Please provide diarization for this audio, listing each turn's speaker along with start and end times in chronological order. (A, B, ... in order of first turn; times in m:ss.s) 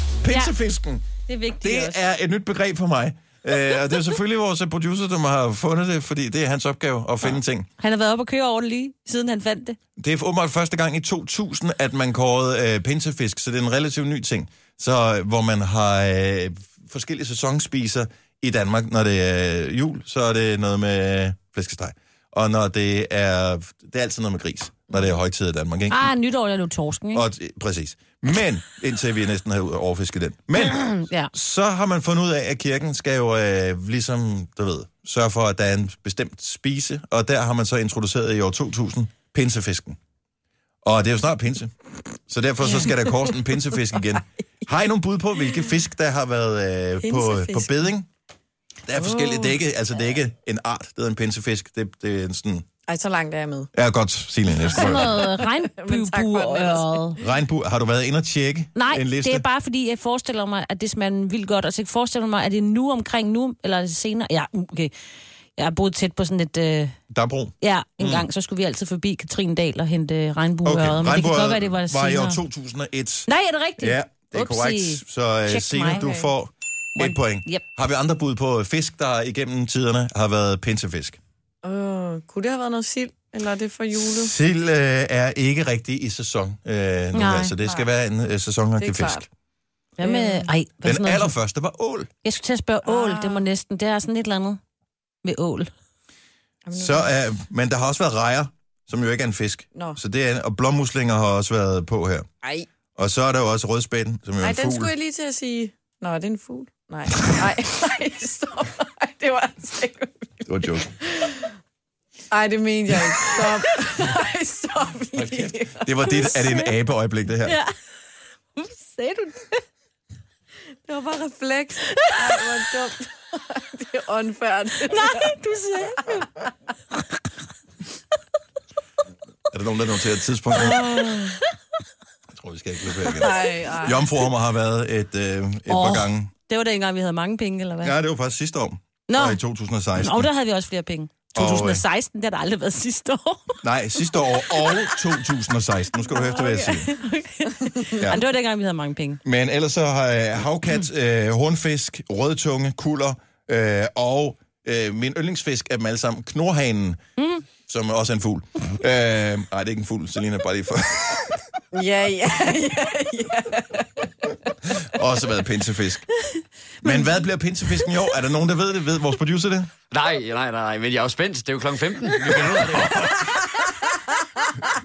0:00.2-0:01.0 A
0:00.3-0:00.5 B
0:01.2-0:02.0 B
0:01.6-0:07.7 A
0:07.8-0:09.8 B
0:10.0-0:26.1 A
0:25.9-0:27.2 B
0:27.1-0:40.0 A
0:30.6-0:31.3 B
0:40.8-0:48.1 A
0:42.6-0:43.1 C
0:47.0-0:47.7 C
0:48.9-0:52.6 A
0:48.9-0:49.6 C
0:52.9-0:53.7 C
0:53.7-0:55.3 A
0:54.7-0:57.2 B
0:54.7-0:57.2 C
0:57.2-0:59.4 A
0:58.7-1:04.9 B
1:05.6-1:06.9 B
1:07.1-1:08.3 A
1:07.6-1:12.4 B
1:10.6-1:13.3 A
1:13.3-1:16.0 B
1:13.8-1:21.2 A
1:15.9-1:16.3 C
1:17.0-1:17.6 B
1:21.6-1:24.3 C
1:24.0-1:29.2 A
1:27.1-1:27.5 B
1:28.8-1:29.3 C
1:30.0-1:31.3 B
1:30.0-1:30.5 C
1:30.8-1:32.1 A
1:32.2-1:34.6 B
1:32.8-1:33.5 C
1:35.2-1:35.7 B
1:36.6-1:37.1 C
1:36.7-1:42.2 A
1:43.0-1:44.9 A
1:44.4-1:51.5 C
1:50.5-1:50.9 A
1:52.3-1:56.3 C
1:55.2-1:57.6 A
1:56.0-1:56.7 B
1:57.4-1:57.7 B
1:58.5-1:59.6 B
2:00.9-2:05.3 C
2:01.8-2:02.5 B
2:04.8-2:06.3 B
2:09.5-2:11.2 A
2:10.5-2:11.4 B
2:12.3-2:16.3 A
2:13.1-2:14.0 C
2:15.7-2:17.9 B
2:17.8-2:20.3 A
2:19.1-2:19.4 B
2:20.0-2:23.6 B
2:21.3-2:21.8 A
2:23.6-2:26.9 A
2:24.2-2:25.0 B
2:26.1-2:29.2 B
2:28.0-2:28.2 A
2:29.2-2:37.0 A
2:37.2-2:37.4 B
2:37.6-2:41.4 A
2:41.7-2:44.1 C
2:44.7-2:46.1 A
2:46.8-2:49.7 A
2:49.9-2:53.2 D